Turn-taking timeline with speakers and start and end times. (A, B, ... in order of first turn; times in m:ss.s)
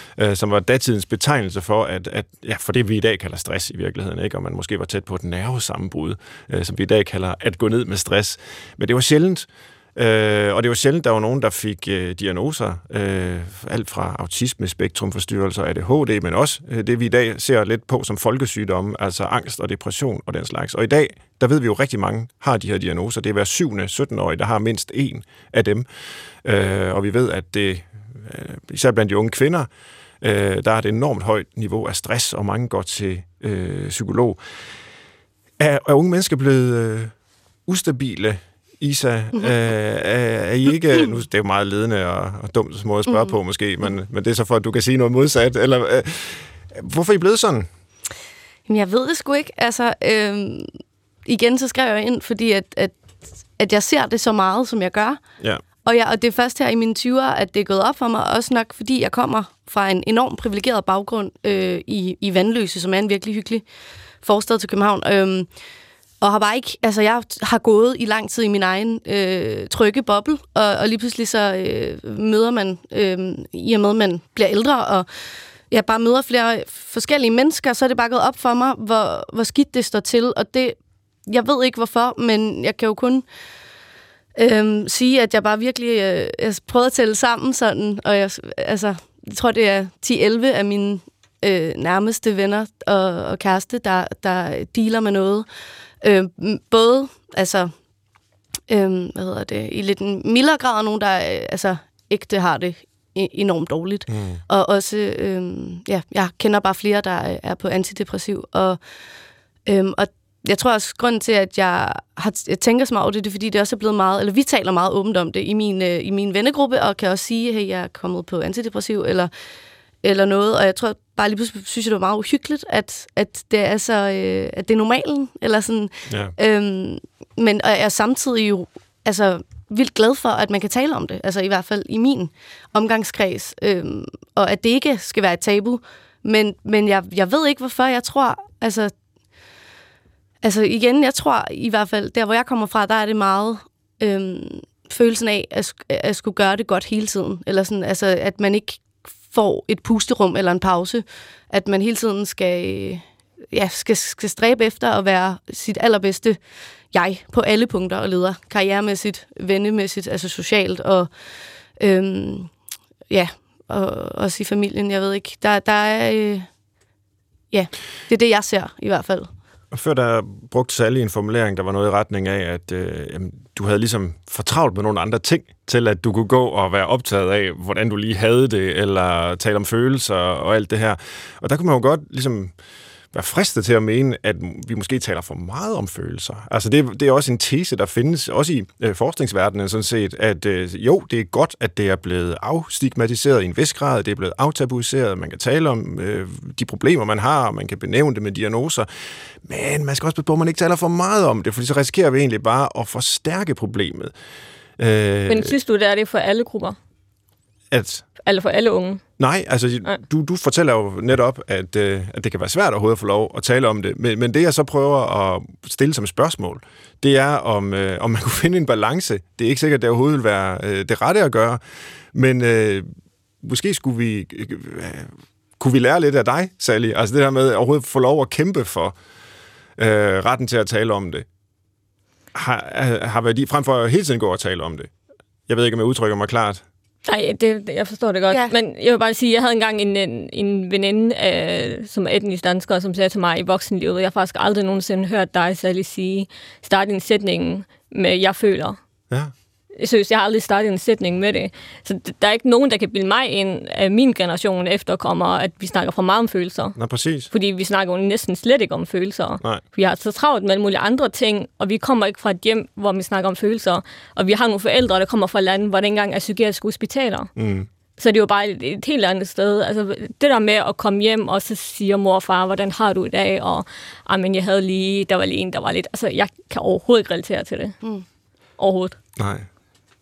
0:00.2-0:25.9 A
0:26.4-0:29.7 A
0:30.2-0:34.4 A
0:35.6-0:37.1 A
0:37.7-0:47.7 A
0:43.1-0:43.3 B
0:48.7-0:50.7 B
0:51.2-0:53.0 B
0:53.6-0:55.2 B
0:55.8-1:03.6 B
1:04.2-1:05.5 B
1:06.2-1:15.1 B
1:15.7-1:23.2 B
1:24.4-1:35.5 B
1:36.0-1:37.7 B
1:38.7-1:48.8 B
1:44.1-1:44.4 A
1:49.7-1:59.3 B
2:00.0-2:18.9 B
2:20.4-2:36.4 B
2:36.9-2:41.1 B
2:41.8-2:42.5 B
2:43.1-2:46.5 B
2:47.5-2:49.3 B
2:49.7-3:02.5 A
3:03.1-3:18.9 A
3:19.4-3:24.1 A
3:24.8-3:25.6 A
3:25.3-3:26.8 C
3:27.7-3:28.0 A
3:28.2-3:29.0 C
3:29.2-3:41.6 A
3:42.1-3:42.9 A
3:43.4-3:49.0 A
3:49.8-3:51.2 A
3:52.3-3:54.9 A
3:55.5-3:56.6 A
3:57.1-4:08.8 C
4:09.8-4:16.8 C
4:16.8-4:17.3 A
4:17.3-4:27.3 C
4:27.4-4:27.7 A
4:28.0-4:37.8 C
4:38.6-4:39.0 C
4:39.2-4:39.5 A